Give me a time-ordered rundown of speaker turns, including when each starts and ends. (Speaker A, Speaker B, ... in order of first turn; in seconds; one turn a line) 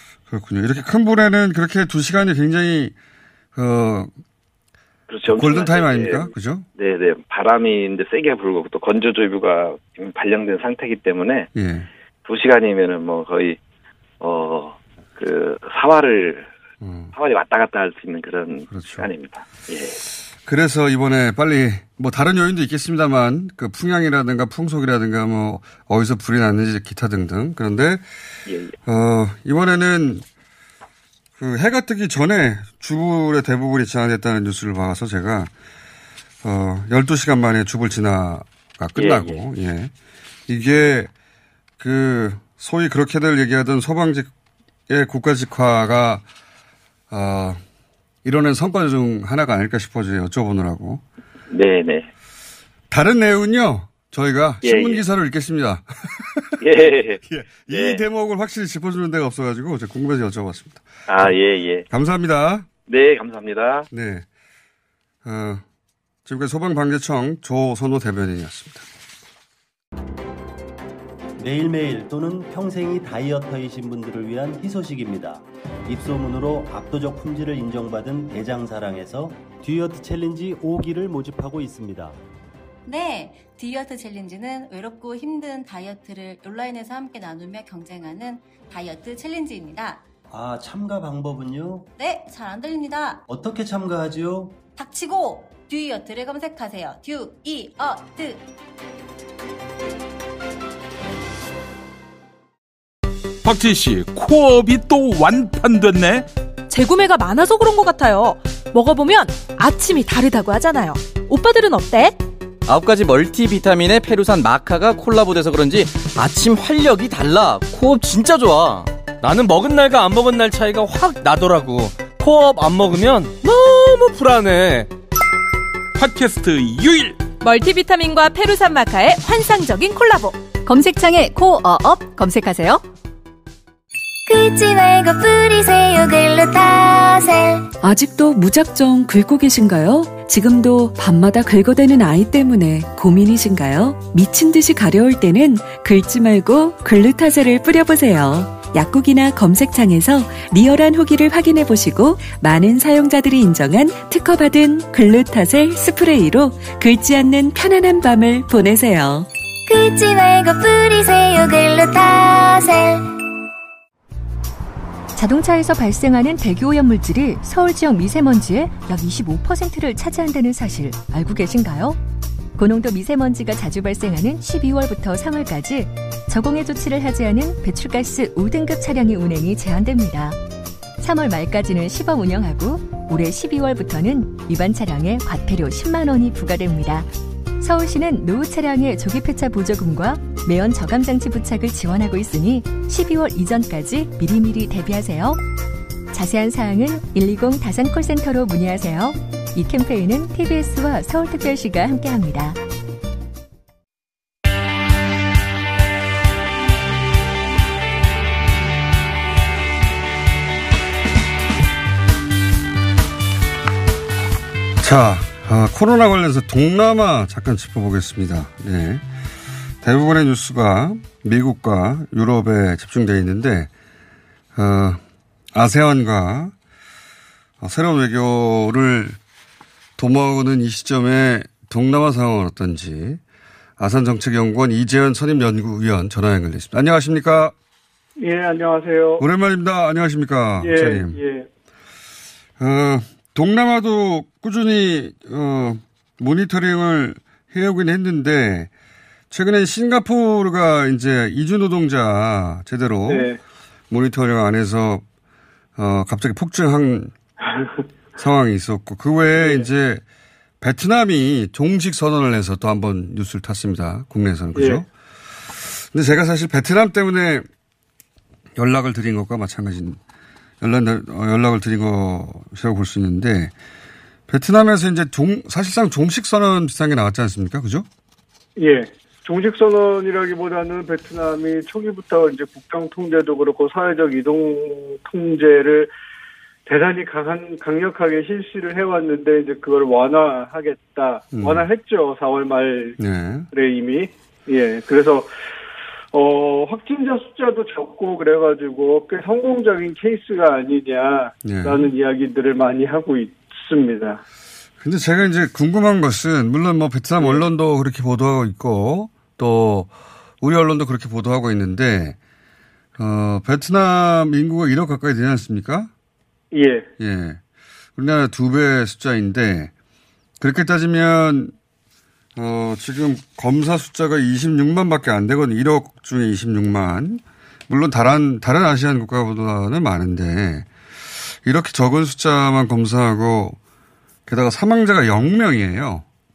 Speaker A: 0.3-2.9
Speaker A: 3.5-4.1
Speaker B: 5.1-11.5
Speaker A: 5.3-6.7
Speaker A: 11.5-11.9
Speaker B: 12.2-13.6
Speaker B: 14.2-16.5
Speaker A: 16.8-17.1
Speaker B: 17.1-20.0
Speaker A: 18.7-19.1
Speaker A: 20.5-28.0
Speaker B: 28.5-28.7
Speaker A: 28.9-30.2
Speaker A: 31.4-35.5
Speaker A: 36.4-39.9
Speaker B: 39.0-39.4
Speaker A: 40.5-41.1
Speaker A: 41.8-44.3
Speaker A: 44.9-46.2
Speaker A: 47.1-47.6
Speaker A: 48.2-51.0
Speaker B: 51.5-52.1
Speaker A: 52.9-56.6
Speaker B: 54.6-55.0
Speaker B: 56.6-58.0
Speaker A: 57.3-61.3
Speaker B: 61.1-61.9
Speaker A: 61.9-62.7
Speaker B: 62.9-63.9
Speaker A: 63.9-64.3
Speaker A: 65.2-65.6
Speaker A: 66.2-68.8
Speaker C: 71.4-82.2
Speaker D: 82.9-90.0
Speaker C: 90.3-91.9
Speaker D: 92.0-93.2
Speaker C: 93.3-94.6
Speaker D: 94.8-98.5
Speaker E: 103.5-106.3
Speaker F: 106.7-112.2
Speaker G: 112.7-124.9
Speaker E: 126.0-127.1
Speaker F: 127.4-132.8
Speaker H: 134.3-137.7
Speaker I: 137.8-159.3
Speaker H: 159.7-163.1
Speaker J: 165.2-172.0
Speaker J: 172.6-180.4
Speaker J: 181.0-187.1
Speaker J: 187.6-195.4
Speaker J: 196.1-202.6
Speaker A: 214.8-219.0
Speaker A: 219.8-223.7
Speaker A: 224.6-225.0
Speaker A: 225.5-226.5
Speaker A: 227.6-229.2
Speaker A: 230.0-233.2
Speaker A: 233.8-237.5
Speaker K: 238.2-239.2
Speaker A: 239.2-241.2
Speaker K: 240.6-241.5
Speaker A: 242.6-248.7
Speaker A: 249.3-253.3
Speaker K: 253.1-253.4
Speaker A: 253.9-255.0
Speaker A: 255.8-257.1
Speaker K: 257.5-257.8
Speaker A: 258.2-260.0
Speaker K: 259.4-259.7
Speaker A: 260.6-264.9
Speaker K: 264.6-264.9
Speaker A: 265.6-267.5
Speaker A: 268.6-270.0
Speaker A: 270.6-273.5
Speaker A: 274.3-277.9
Speaker K: 278.6-285.9
Speaker K: 286.7-293.0
Speaker A: 291.3-291.6
Speaker A: 293.0-293.5
Speaker K: 293.5-295.3
Speaker K: 296.1-304.2
Speaker A: 301.4-301.9
Speaker A: 304.8-312.2
Speaker A: 313.0-315.9
Speaker K: 316.5-316.9
Speaker A: 317.0-317.4
Speaker A: 318.0-319.7
Speaker A: 320.4-321.5
Speaker A: 322.4-330.7
Speaker A: 331.4-333.6
Speaker A: 334.3-336.1